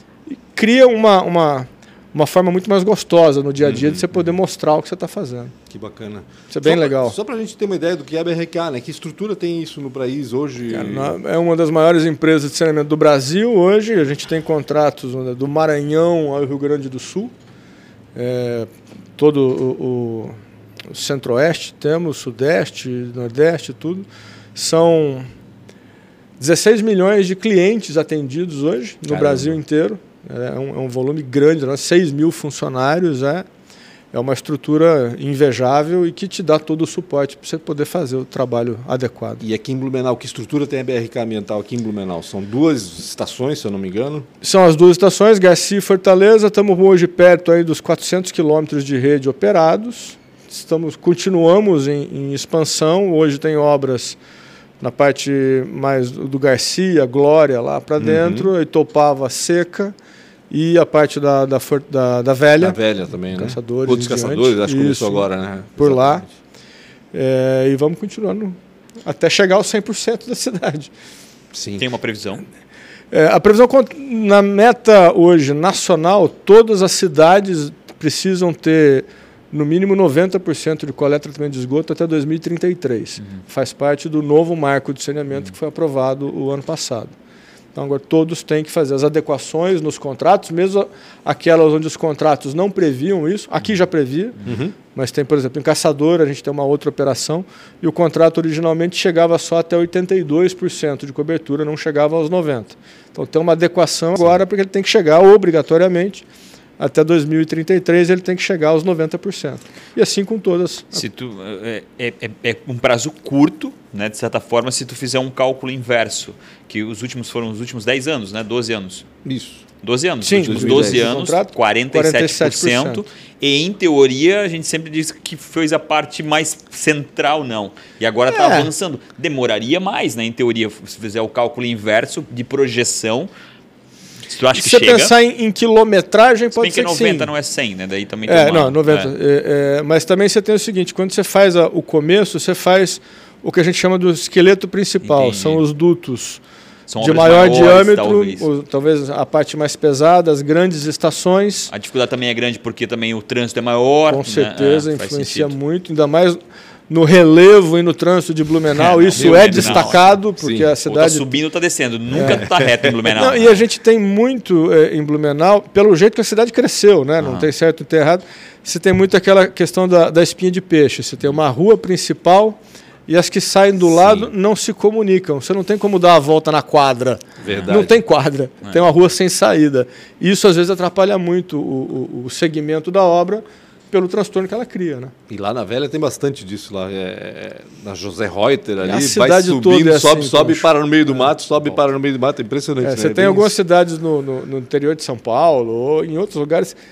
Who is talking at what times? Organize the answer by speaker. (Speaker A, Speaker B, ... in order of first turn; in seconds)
Speaker A: 0.3-5.5, 6.5-7.2, 10.7-17.3, 18.1-20.3, 20.9-25.3, 26.4-33.5, 34.1-39.4, 44.4-54.2, 54.8-59.9, 60.5-62.8, 63.3-66.2, 67.1-70.9, 73.1-87.1, 87.7-94.4, 94.9-106.2, 106.8-111.0, 120.2-123.0, 128.3-128.7, 134.5-137.3, 138.2-146.4, 147.0-151.7, 154.1-156.4, 156.9-161.4, 162.1-162.5, 163.0-185.1, 188.8-190.7, 192.8-196.8
Speaker B: 3.6-4.1, 5.7-11.2, 29.1-29.6, 39.4-44.3, 58.0-58.5, 62.6-66.3, 71.5-71.8, 94.4-94.7, 119.2-119.6, 120.2-121.2, 159.1-160.7, 162.2-162.7, 177.4-178.0, 185.3-193.6
Speaker C: 71.8-72.5, 110.9-119.0, 119.8-133.3, 134.3-135.1, 136.6-139.1, 145.0-145.6, 146.9-148.5, 151.7-155.5, 158.7-160.0, 160.8-163.6, 167.2-167.5